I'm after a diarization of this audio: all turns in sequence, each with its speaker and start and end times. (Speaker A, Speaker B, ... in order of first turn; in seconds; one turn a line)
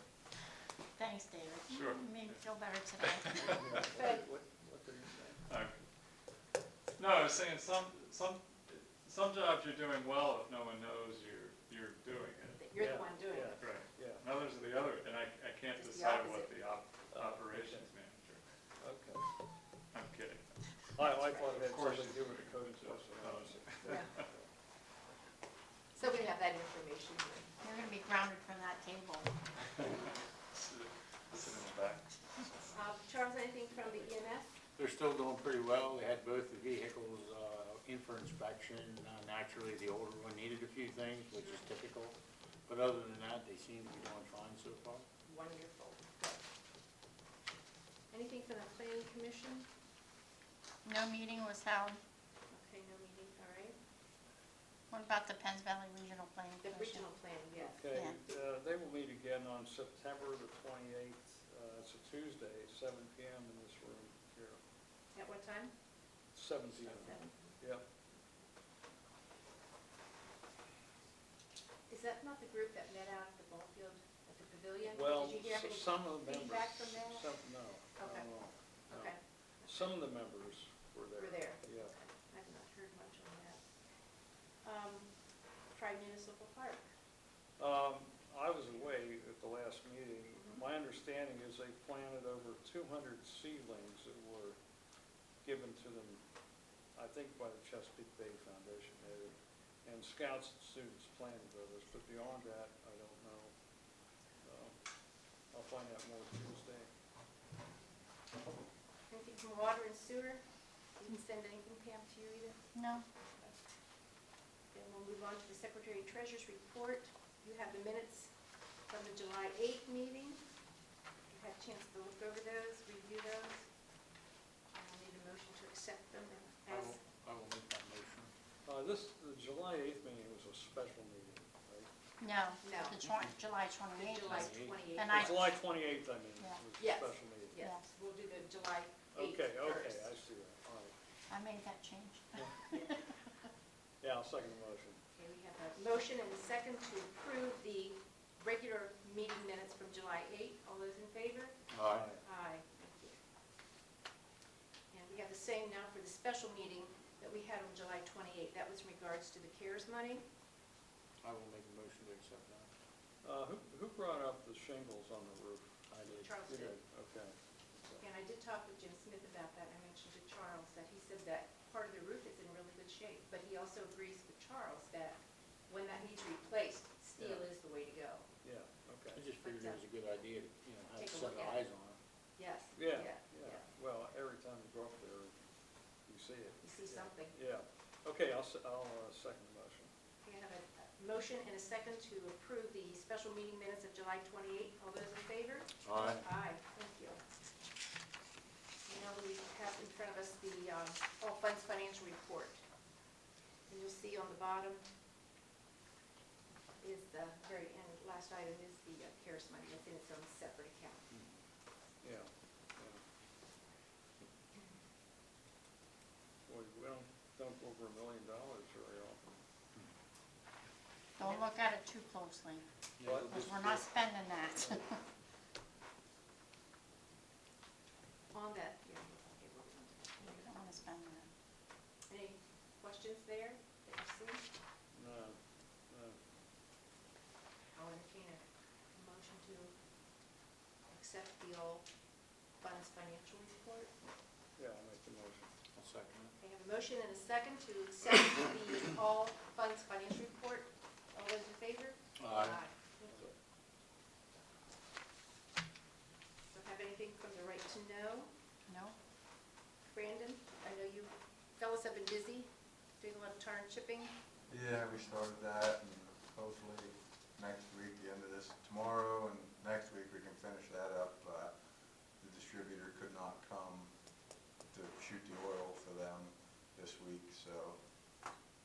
Speaker A: 1.0-3.7
Speaker B: 1.8-2.4
Speaker C: 3.5-5.5
Speaker D: 3.8-4.2
Speaker B: 5.5-5.7
Speaker B: 7.0-12.6
Speaker D: 12.6-13.6
Speaker C: 12.7-14.2
Speaker B: 13.6-18.4
Speaker D: 15.8-16.6
Speaker C: 17.1-17.9
Speaker C: 18.8-19.2
Speaker B: 19.9-20.5
Speaker C: 21.0-24.5
Speaker D: 21.1-21.5
Speaker B: 21.6-24.2
Speaker D: 23.9-24.1
Speaker D: 25.9-27.5
Speaker A: 26.0-26.3
Speaker A: 27.6-29.3
Speaker B: 30.5-32.1
Speaker D: 32.7-34.5
Speaker E: 34.8-42.2
Speaker E: 42.7-45.1
Speaker D: 45.3-46.4
Speaker D: 48.1-49.7
Speaker A: 50.9-52.0
Speaker D: 52.5-53.8
Speaker A: 54.9-57.1
Speaker D: 56.6-57.9
Speaker C: 57.6-64.6
Speaker A: 57.9-58.2
Speaker D: 65.1-65.7
Speaker C: 66.3-67.8
Speaker D: 66.8-67.5
Speaker D: 71.9-77.3
Speaker C: 74.9-81.9
Speaker D: 78.0-78.3
Speaker D: 78.9-79.9
Speaker D: 81.2-83.6
Speaker D: 84.6-85.1
Speaker D: 85.7-86.9
Speaker C: 87.6-94.6
Speaker D: 90.3-90.6
Speaker C: 95.4-96.2
Speaker C: 97.0-103.5
Speaker C: 104.4-104.8
Speaker C: 105.5-106.9
Speaker D: 109.1-110.4
Speaker D: 111.0-113.6
Speaker A: 112.8-113.0
Speaker D: 114.7-118.3
Speaker D: 118.9-120.4
Speaker D: 121.3-123.7
Speaker D: 124.8-127.0
Speaker E: 126.7-128.3
Speaker C: 128.7-131.9
Speaker A: 132.2-135.5
Speaker D: 132.6-133.1
Speaker D: 133.9-135.5
Speaker E: 134.3-134.9
Speaker C: 135.1-137.6
Speaker A: 136.4-136.6
Speaker D: 136.8-140.1
Speaker C: 139.1-140.9
Speaker A: 141.3-143.3
Speaker C: 144.0-145.0
Speaker D: 145.2-151.6
Speaker E: 151.7-152.1
Speaker C: 151.9-152.2
Speaker D: 152.2-153.2
Speaker D: 154.9-160.2
Speaker E: 161.2-162.7
Speaker C: 163.2-165.7
Speaker E: 165.9-166.6
Speaker D: 166.2-166.8
Speaker C: 166.5-168.0
Speaker D: 168.0-178.3
Speaker C: 177.2-177.5
Speaker C: 178.4-179.2
Speaker E: 179.1-182.0
Speaker D: 179.4-179.8
Speaker D: 181.0-181.6
Speaker D: 182.4-183.7
Speaker C: 182.8-185.3
Speaker C: 186.1-189.9
Speaker D: 186.6-187.4
Speaker D: 190.2-197.2
Speaker E: 195.8-196.1
Speaker D: 198.9-202.6
Speaker D: 203.7-204.8
Speaker D: 206.8-211.1
Speaker C: 212.0-213.0
Speaker C: 216.5-219.4
Speaker A: 221.2-222.7
Speaker D: 221.2-221.5
Speaker E: 223.0-223.6
Speaker C: 223.0-223.9
Speaker A: 223.3-225.0
Speaker D: 228.3-230.5
Speaker A: 230.2-231.3
Speaker D: 232.1-234.4
Speaker C: 234.9-235.4
Speaker C: 235.9-236.2
Speaker D: 237.7-238.4
Speaker D: 238.9-239.7
Speaker D: 240.9-241.8
Speaker D: 242.6-243.9
Speaker C: 244.6-245.5
Speaker E: 245.7-246.3
Speaker D: 246.4-253.3
Speaker E: 252.2-252.6
Speaker D: 256.5-258.3
Speaker A: 258.7-258.9
Speaker D: 259.8-264.1
Speaker F: 264.5-277.9